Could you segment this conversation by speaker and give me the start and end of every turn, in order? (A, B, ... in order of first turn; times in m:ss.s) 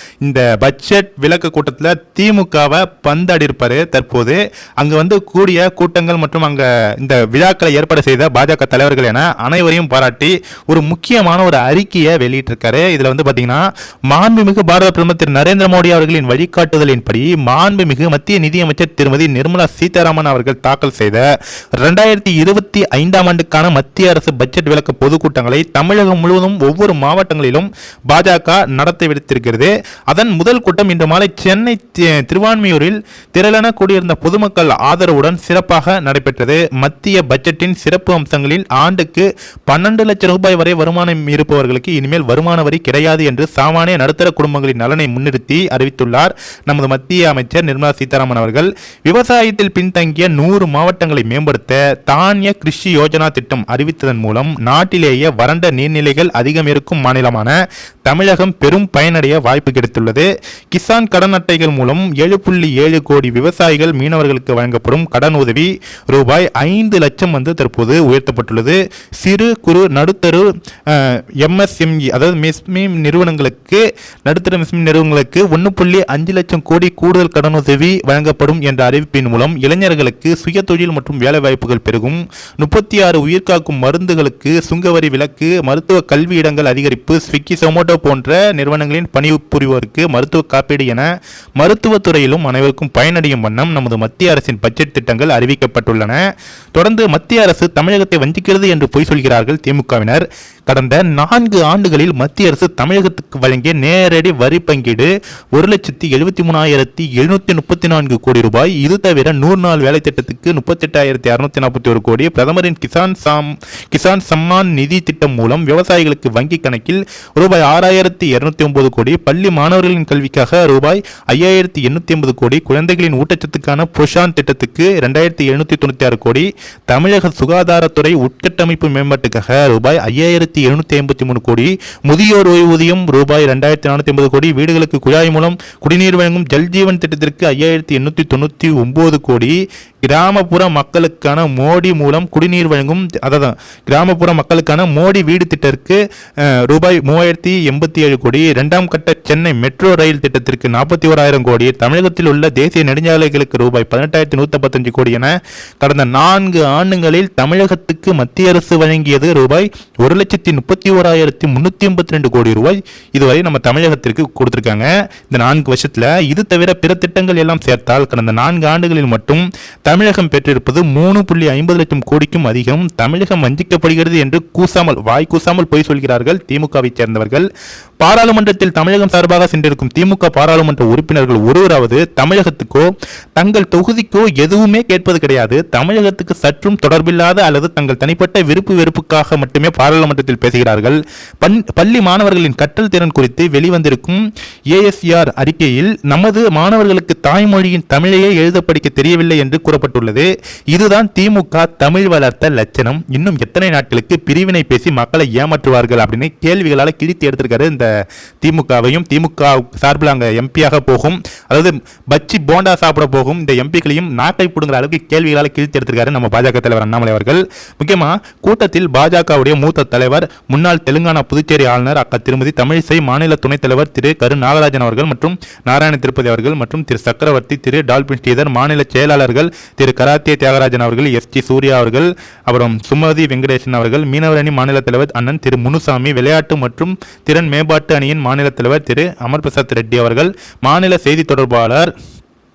0:00.2-0:21.2 A
0:21.8-0:57.5 A
0:58.1-1:36.2 A
1:36.8-2:26.0 A
2:26.6-2:35.3 A
2:35.8-2:57.5 A
2:58.0-3:14.2 A
3:14.7-3:27.9 A
3:28.4-4:01.9 A